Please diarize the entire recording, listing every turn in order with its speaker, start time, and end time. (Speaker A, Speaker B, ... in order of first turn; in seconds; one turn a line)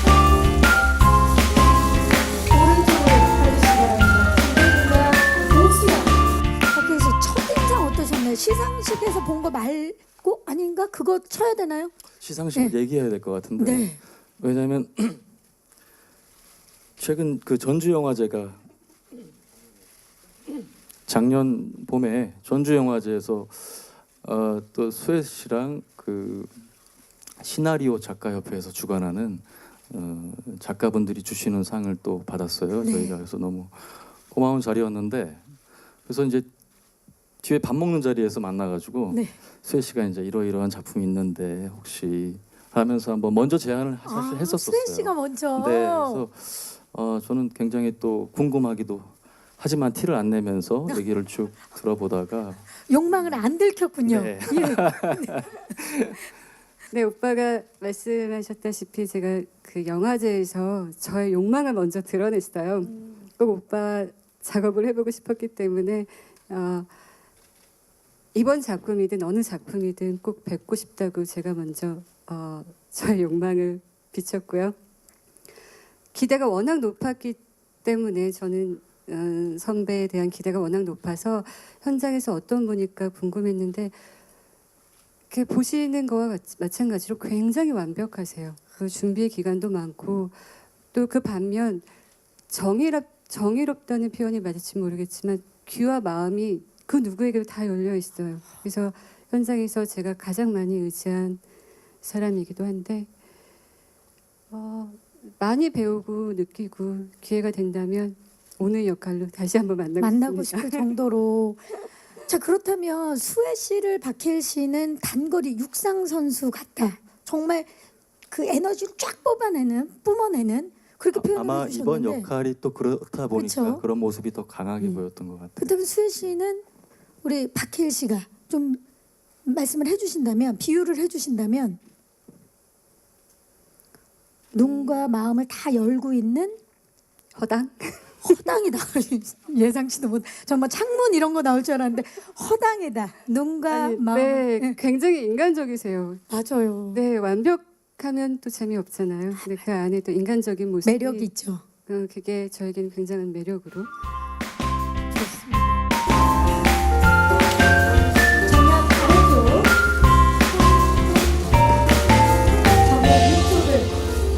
Speaker A: 2.5-6.1
Speaker A: 6.7-11.9
Speaker B: 12.2-15.2
Speaker A: 13.6-14.0
Speaker B: 17.0-18.6
Speaker B: 21.1-26.6
Speaker B: 27.4-35.5
Speaker A: 32.8-33.2
Speaker B: 36.1-36.5
Speaker B: 37.4-53.3
Speaker A: 39.1-39.4
Speaker A: 44.0-46.2
Speaker A: 52.8-55.5
Speaker B: 54.0-56.2
Speaker C: 56.9-66.9
Speaker C: 68.3-74.8
Speaker C: 76.1-84.0
Speaker C: 85.3-91.9
Speaker C: 92.5-101.4
Speaker C: 102.0-103.1
Speaker C: 104.5-111.0
Speaker A: 110.0-111.7
Speaker A: 112.3-117.7
Speaker A: 118.3-122.3
Speaker B: 121.1-125.8
Speaker A: 123.3-123.8
Speaker A: 125.6-126.6
Speaker A: 127.2-128.8
Speaker A: 129.5-131.8
Speaker A: 134.5-136.6
Speaker C: 134.6-135.1
Speaker C: 137.3-138.4
Speaker A: 138.2-144.8
Speaker C: 143.7-146.2
Speaker A: 146.3-147.0
Speaker C: 146.9-151.3
Speaker A: 149.3-149.7
Speaker A: 150.8-151.6
Speaker C: 151.9-153.9
Speaker A: 155.1-155.8
Speaker A: 158.4-159.7
Speaker A: 162.8-163.9